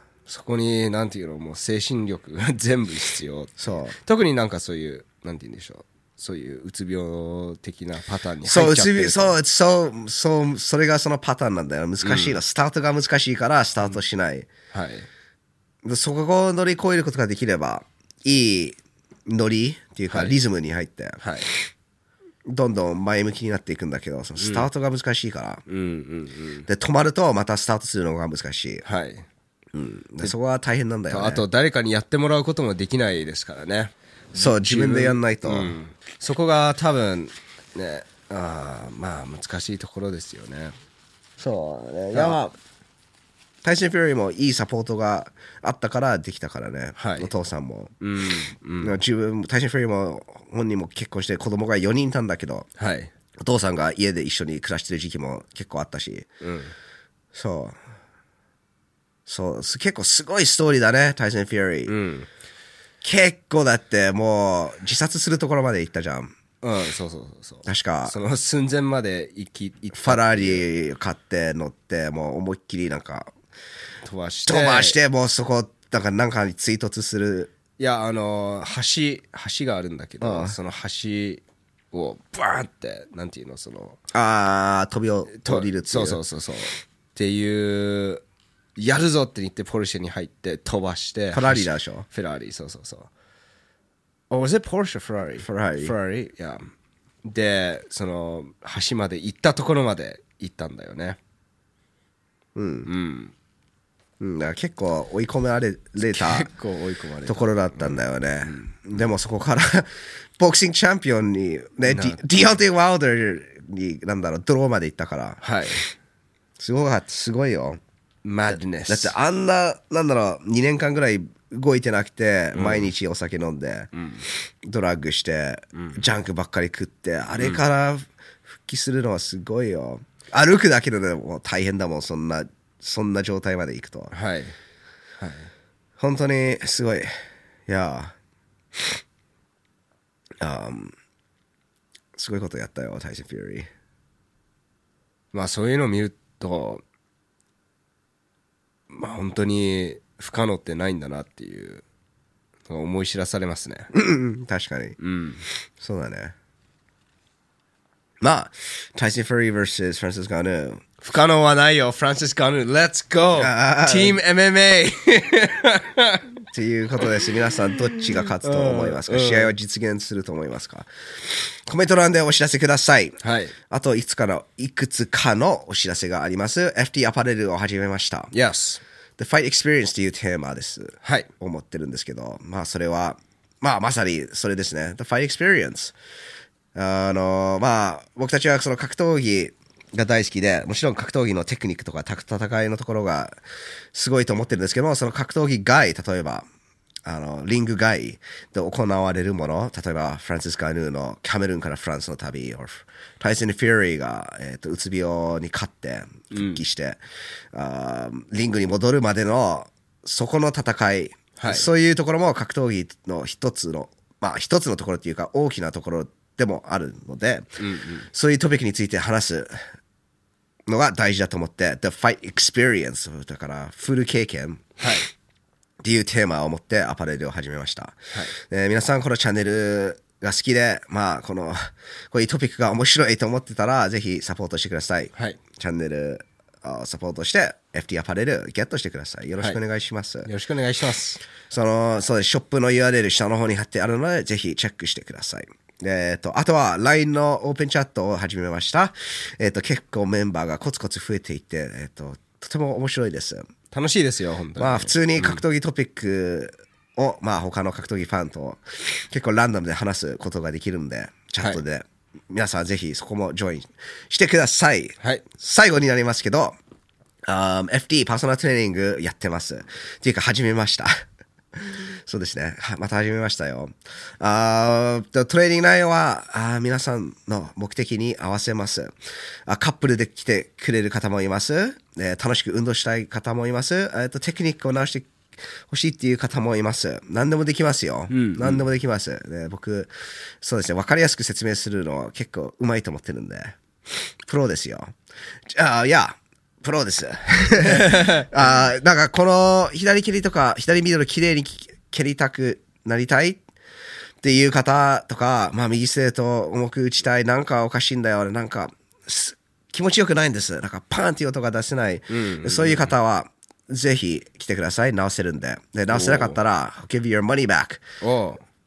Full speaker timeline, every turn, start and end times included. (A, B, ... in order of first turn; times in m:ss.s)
0:00.3-0:09.3 A
0:03.6-0:04.0 B
0:08.4-0:14.5 B
0:12.0-0:12.4 A
0:14.7-0:15.1 A
0:15.8-0:21.2 B
0:20.1-0:20.4 A
0:21.2-0:21.5 A
0:22.5-0:25.6 B
0:24.4-0:24.7 A
0:25.7-0:26.7 A
0:26.7-0:28.8 B
0:28.8-0:29.2 A
0:29.7-0:31.4 B
0:31.1-0:40.7 A
0:34.3-0:35.8 B
0:41.4-0:42.5 B
0:42.1-0:42.4 A
0:43.6-0:47.9 B
0:47.0-0:47.3 A
0:48.0-0:49.0 A
0:48.8-0:52.7 B
0:52.8-0:53.1 A
0:53.4-0:56.3 B
0:56.4-0:56.7 A
0:57.3-0:57.8 B
0:59.2-1:01.9 B
1:01.8-1:02.3 A
1:03.0-1:06.3 B
1:06.6-1:10.6 A
1:07.6-1:08.1 B
1:09.9-1:13.3 B
1:14.0-1:15.0 A
1:14.5-1:17.5 B
1:17.8-1:24.0 A
1:20.2-1:20.6 B
1:24.1-1:26.2 B
1:25.3-1:28.2 A
1:28.8-1:33.1 A
1:31.3-1:32.1 B
1:34.3-1:36.7 A
1:35.4-1:35.9 B
1:37.2-1:41.2 A
1:42.6-1:42.9 B
1:42.8-1:43.3 A
1:44.2-1:46.5 B
1:46.0-1:49.1 A
1:47.2-1:55.4 B
1:51.9-1:52.2 A
1:55.4-1:55.9 A
1:56.6-1:57.8 B
1:58.2-1:59.1 A
1:58.5-2:03.9 B
2:02.5-2:02.9 A
2:03.9-2:04.2 A
2:04.6-2:14.1 B
2:05.7-2:06.0 A
2:14.1-2:14.6 A
2:15.2-2:15.5 A
2:16.0-2:17.1 B
2:17.7-2:18.1 B
2:20.4-2:20.9 B
2:22.2-2:23.7 B
2:25.3-2:26.8 A
2:28.9-2:31.8 A
2:32.7-2:33.9 A
2:33.9-2:35.0 B
2:35.0-2:35.4 A
2:35.8-2:36.3 B
2:38.2-2:40.8 B
2:41.0-2:46.3 A
2:43.4-2:44.2 B
2:46.5-2:58.3 B
2:48.2-2:49.6 A
2:53.2-2:53.5 A
2:58.3-2:58.8 A
2:59.2-3:05.9 B
3:01.0-3:01.3 A
3:06.7-3:13.4 B
3:13.9-3:16.4 B
3:17.0-3:27.0 B
3:26.3-3:26.6 A
3:27.5-3:37.6 B
3:31.4-3:31.7 A
3:37.6-3:38.1 A
3:38.1-3:39.6 B
3:40.7-3:44.6 B
3:44.8-3:45.1 A
3:45.8-4:00.3 B
4:00.2-4:01.2 A
4:01.5-4:13.5 B
4:13.7-4:15.4 A
4:14.6-4:26.6 B
4:27.2-4:31.0 B
4:32.0-4:38.9 B
4:39.5-4:45.1 B
4:45.7-4:53.6 B
4:48.1-4:48.6 A
4:54.2-4:54.9 B
4:55.5-5:03.4 B
4:57.6-4:58.3 A
5:04.2-5:17.8 B
5:12.1-5:12.9 A
5:15.9-5:16.4 A
5:18.0-5:18.4 A